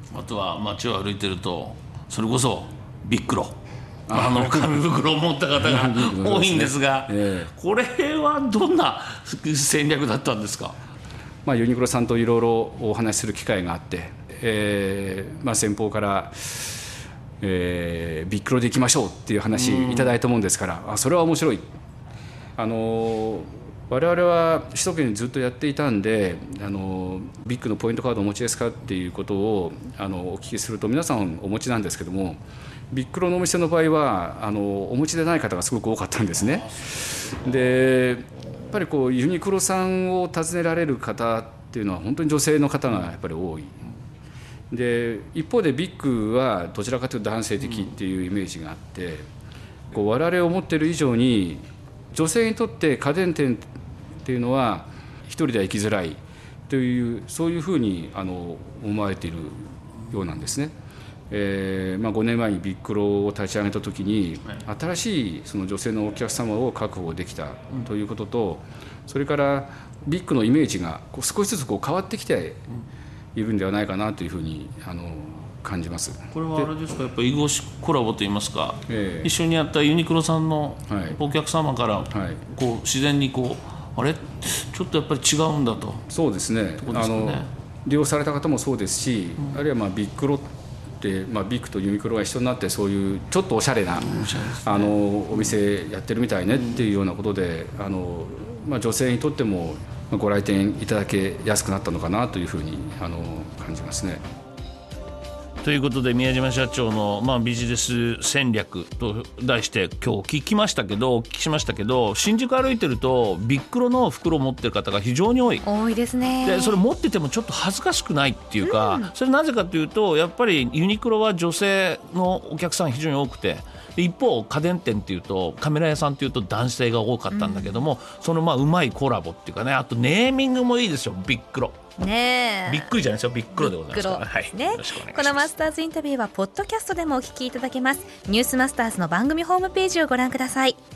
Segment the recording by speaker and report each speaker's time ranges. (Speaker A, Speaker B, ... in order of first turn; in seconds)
Speaker A: 0.1-3.6, 4.1-10.8, 19.5-20.2, 36.5-37.5, 76.3-86.1, 86.8-87.5, 94.0-95.6, 96.5-96.8, 105.6-115.7, 116.4-131.8, 132.7-135.5
Speaker B: 4.1-4.8, 5.6-7.5, 11.4-16.9, 17.4-21.7, 22.6-43.9, 44.7-49.3, 49.9-53.7, 54.2-60.7, 61.3-72.6, 73.3-76.7, 78.9-79.3, 80.9-81.2, 82.1-82.4, 86.1-90.5, 91.0-104.2
Speaker C: 115.6-116.8, 118.6-119.1, 127.3-127.8, 132.0-132.9, 133.6-140.8